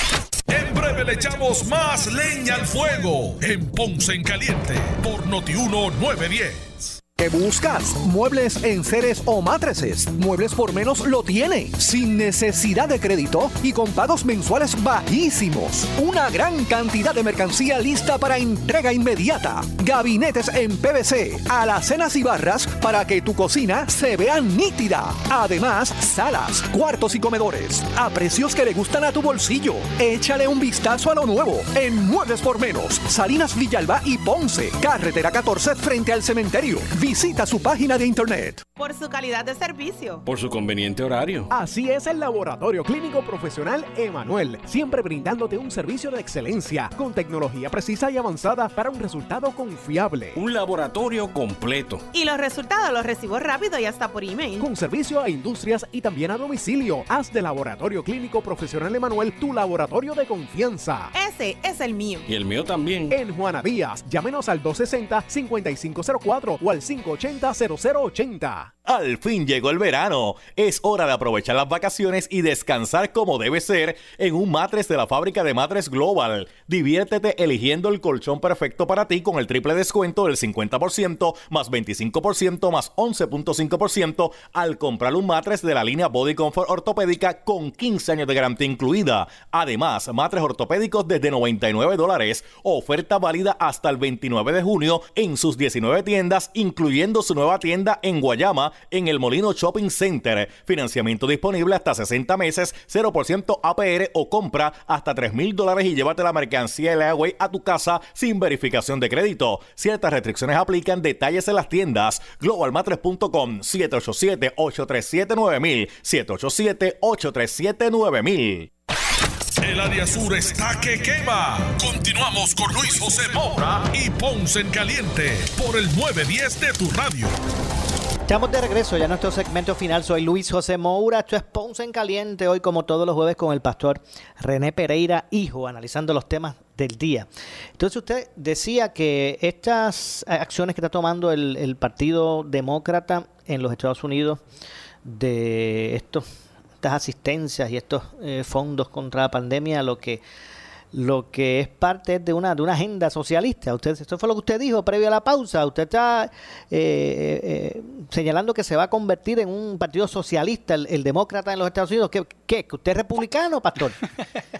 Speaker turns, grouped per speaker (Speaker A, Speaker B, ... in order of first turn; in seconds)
Speaker A: 0.5-7.0, 119.6-127.3
Speaker B: 7.2-38.7, 41.5-50.4, 54.6-61.1, 63.1-68.7
Speaker C: 38.7-40.2, 52.1-54.7, 61.1-62.2
Speaker D: 40.2-41.5, 50.3-52.1, 62.3-63.1
Speaker E: 68.9-118.7
Speaker F: 128.3-144.4, 145.1-146.3, 146.8-150.2, 150.9-164.0